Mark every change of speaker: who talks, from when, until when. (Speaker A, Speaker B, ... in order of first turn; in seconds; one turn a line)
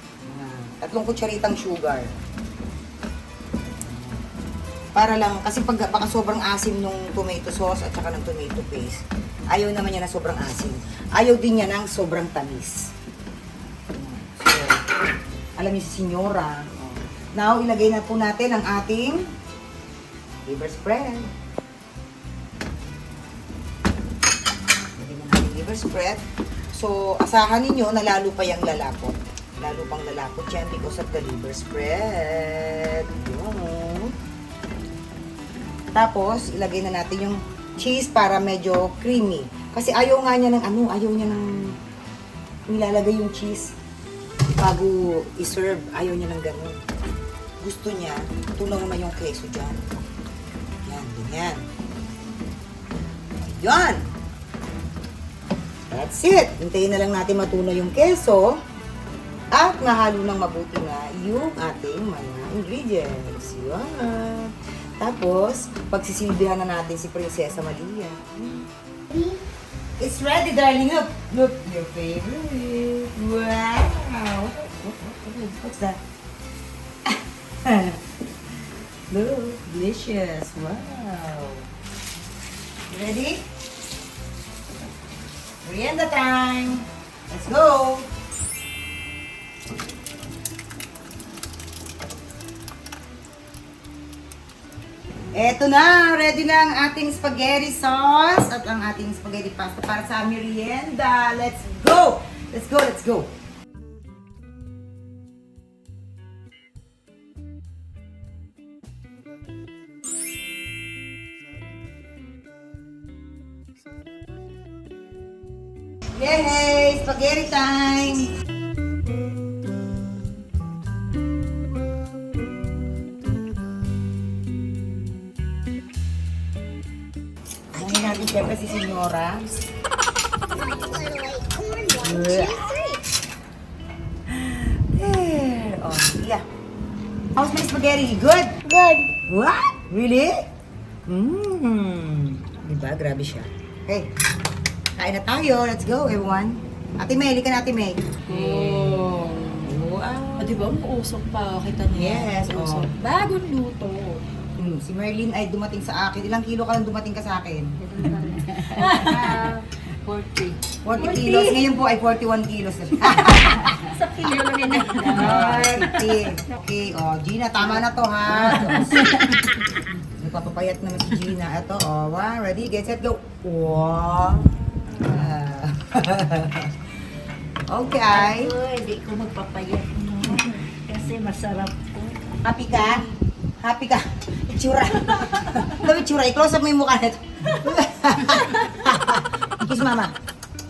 Speaker A: 0.2-2.1
Speaker A: 3.8-4.2
Speaker A: 5.0-12.9
Speaker A: 13.9-14.8
Speaker A: 15.6-19.3
Speaker A: 20.5-21.3
Speaker A: 25.0-26.2
Speaker A: 26.7-34.1
Speaker A: 35.9-41.8
Speaker A: 42.7-43.8
Speaker A: 44.6-46.8
Speaker A: 47.6-49.9
Speaker A: 50.9-51.6
Speaker A: 53.4-54.1
Speaker A: 55.9-58.6
Speaker A: 59.5-68.7
Speaker B: 69.1-69.4
Speaker A: 70.0-76.0
Speaker A: 77.0-78.0
Speaker A: 79.1-81.7
Speaker A: 82.9-83.4
Speaker A: 85.6-88.1
Speaker A: 95.3-103.3
Speaker A: 116.2-118.3
Speaker A: 127.7-129.6
Speaker B: 130.5-133.0
Speaker A: 132.0-132.7
Speaker A: 134.3-136.4
Speaker A: 137.4-138.5
Speaker B: 138.6-139.1
Speaker A: 139.1-140.4
Speaker A: 141.1-144.1
Speaker A: 145.0-149.1
Speaker C: 148.2-149.8
Speaker A: 149.6-150.6
Speaker C: 150.4-154.2
Speaker A: 151.9-152.9
Speaker A: 154.6-157.8
Speaker C: 157.8-161.7
Speaker A: 158.3-159.5
Speaker A: 160.8-164.0
Speaker C: 163.0-166.6
Speaker A: 164.8-169.2
Speaker C: 168.3-169.4
Speaker A: 170.0-176.8
Speaker A: 177.7-178.6
Speaker C: 178.1-183.2
Speaker A: 182.4-183.1
Speaker A: 183.6-190.1
Speaker C: 185.3-185.7
Speaker C: 188.3-188.6